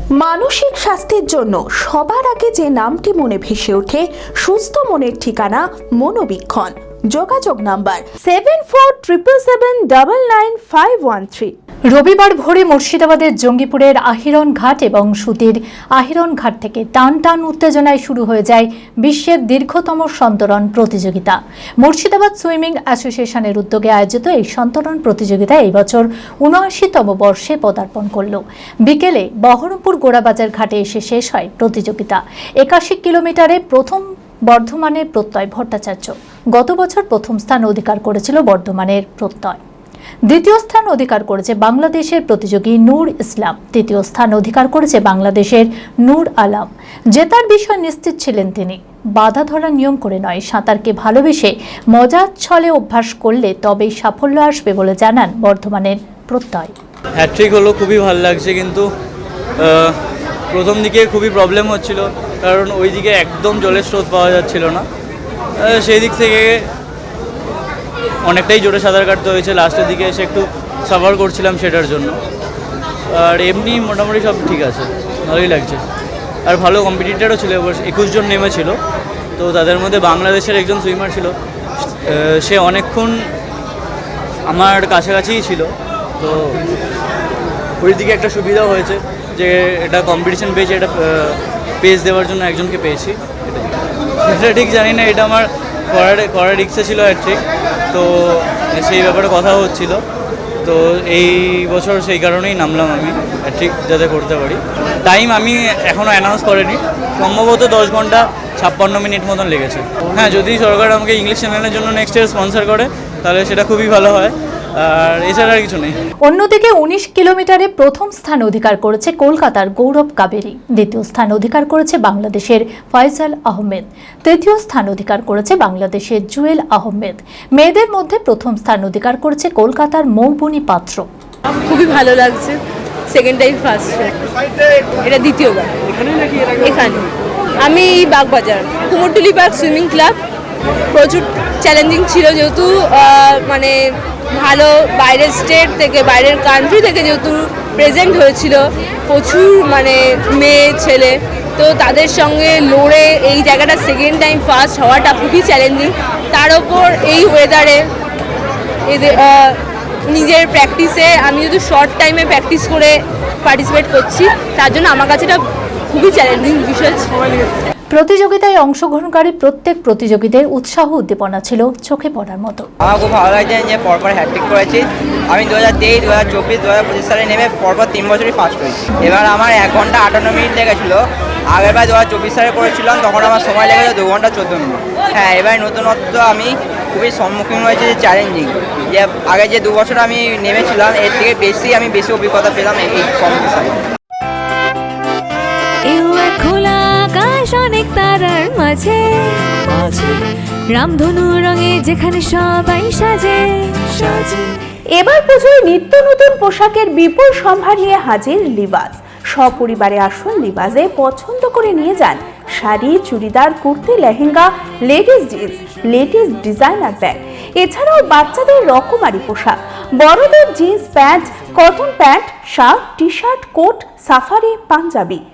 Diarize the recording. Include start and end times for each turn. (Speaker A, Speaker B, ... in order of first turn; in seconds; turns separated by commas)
Speaker A: 0.2-11.5, Speaker B: 11.9-39.6, Speaker B: 40.3-56.7, Speaker C: 57.2-58.9, Speaker C: 59.6-60.0, Speaker C: 60.5-64.8, Speaker C: 65.6-66.6, Speaker C: 68.3-72.2, Speaker C: 73.1-75.8, Speaker C: 76.5-78.8, Speaker C: 79.4-81.3, Speaker C: 82.1-83.2, Speaker C: 84.5-86.6, Speaker C: 87.8-93.7, Speaker C: 94.2-97.4, Speaker C: 97.9-100.0, Speaker C: 100.6-116.0, Speaker B: 116.2-131.0, Speaker D: 131.7-132.6, Speaker D: 133.1-134.1, Speaker D: 135.0-135.8, Speaker D: 136.6-137.1, Speaker D: 137.6-140.2, Speaker D: 140.9-143.8, Speaker D: 144.3-157.8, Speaker D: 158.9-159.6, Speaker D: 160.1-165.4, Speaker D: 165.9-167.1, Speaker B: 167.9-172.7, Speaker E: 172.8-193.8, Speaker F: 195.9-204.5, Speaker A: 204.9-225.2